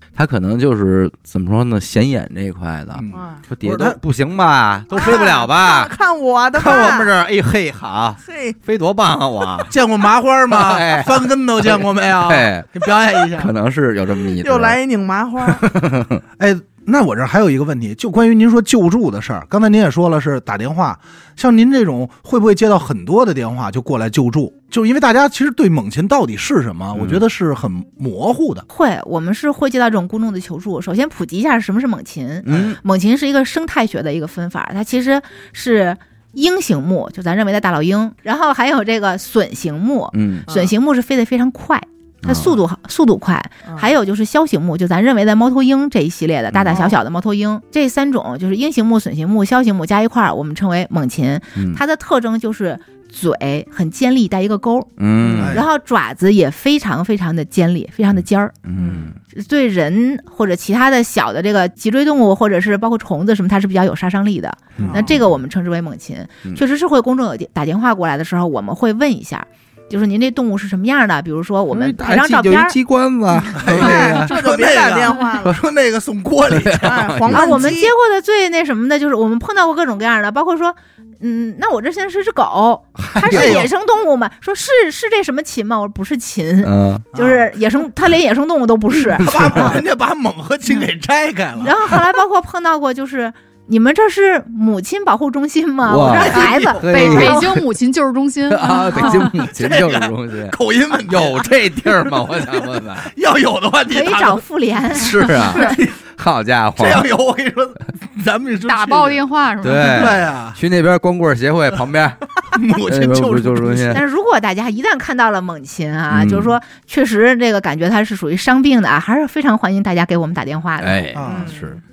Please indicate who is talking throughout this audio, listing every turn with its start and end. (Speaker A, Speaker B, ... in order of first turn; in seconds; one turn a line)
Speaker A: 0.1-5.9
Speaker B: 3.0-4.0
Speaker C: 3.1-3.4
Speaker C: 4.9-7.1
Speaker A: 6.5-9.7
Speaker C: 8.2-8.6
Speaker B: 9.7-13.5
Speaker A: 10.5-14.8
Speaker C: 14.3-15.6
Speaker A: 15.4-16.2
Speaker B: 16.4-28.7
Speaker A: 26.9-27.2
Speaker D: 28.7-58.5
Speaker B: 32.5-32.8
Speaker A: 32.5-32.8
Speaker A: 40.1-40.5
Speaker A: 42.2-42.6
Speaker A: 46.5-46.9
Speaker A: 51.6-51.8
Speaker A: 55.0-55.6
Speaker B: 55.3-55.7
Speaker A: 58.6-59.2
Speaker C: 58.8-59.1
Speaker D: 59.3-72.8
Speaker B: 64.8-65.1
Speaker A: 64.8-65.3
Speaker A: 71.7-74.5
Speaker B: 73.5-77.1
Speaker C: 73.8-75.6
Speaker A: 76.5-77.5
Speaker C: 76.8-77.9
Speaker D: 77.3-89.8
Speaker A: 83.0-83.7
Speaker B: 83.2-83.7
Speaker A: 86.6-87.0
Speaker B: 87.1-87.5
Speaker A: 89.1-89.8
Speaker B: 89.1-92.0
Speaker D: 91.6-97.6
Speaker A: 95.9-97.6
Speaker B: 96.1-96.8
Speaker E: 96.3-99.3
Speaker A: 98.5-103.1
Speaker B: 99.3-104.4
Speaker D: 103.9-105.8
Speaker A: 104.9-107.1
Speaker B: 105.0-106.0
Speaker B: 106.8-109.2
Speaker E: 108.6-110.2
Speaker A: 109.6-114.0
Speaker B: 109.8-110.6
Speaker B: 112.5-114.0
Speaker D: 113.9-121.2
Speaker A: 116.1-116.6
Speaker A: 120.8-121.8
Speaker B: 121.2-121.5
Speaker C: 121.3-121.7